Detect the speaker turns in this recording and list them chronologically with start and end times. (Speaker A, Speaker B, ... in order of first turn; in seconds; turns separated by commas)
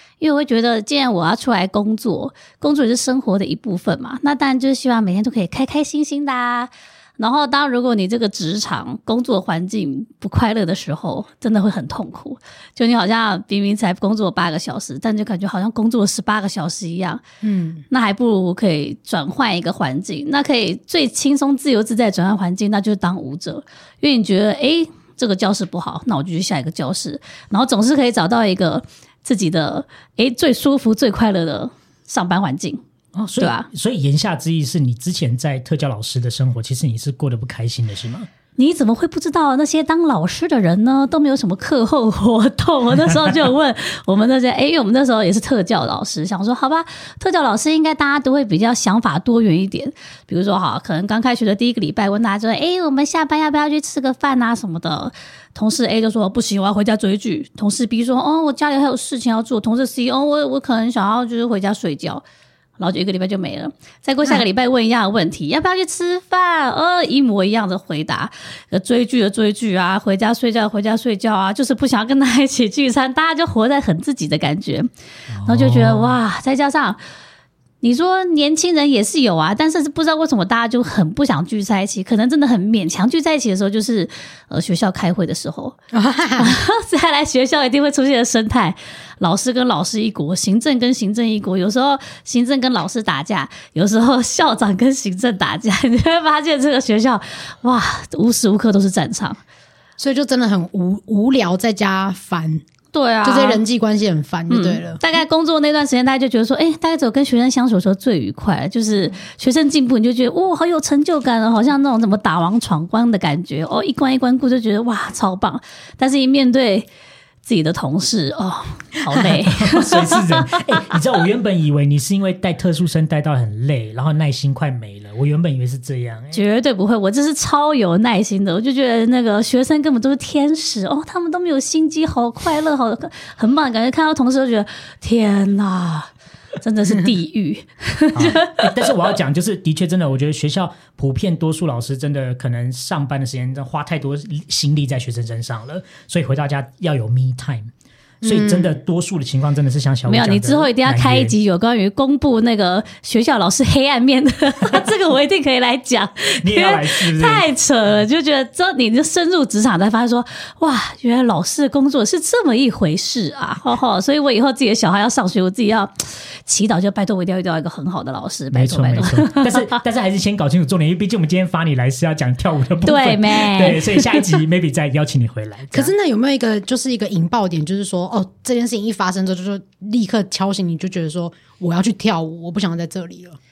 Speaker A: 0.2-17.2, Speaker B: 17.4-17.8, Speaker A: 17.9-32.8, Speaker C: 33.1-38.3, Speaker A: 33.4-33.7, Speaker A: 38.6-62.2, Speaker A: 62.8-74.9, Speaker C: 75.3-76.2, Speaker A: 75.5-77.0, Speaker A: 77.8-85.8, Speaker B: 85.9-86.5, Speaker A: 86.4-99.4, Speaker B: 100.0-102.6, Speaker A: 102.9-103.6, Speaker B: 103.2-105.0, Speaker A: 104.5-116.9, Speaker A: 117.5-120.8, Speaker C: 119.5-126.4, Speaker A: 126.3-138.6, Speaker C: 138.1-147.7, Speaker B: 148.2-148.8, Speaker C: 148.2-151.3, Speaker A: 150.1-169.7, Speaker C: 156.4-157.4, Speaker C: 168.5-175.9, Speaker A: 172.8-174.4, Speaker B: 175.7-183.4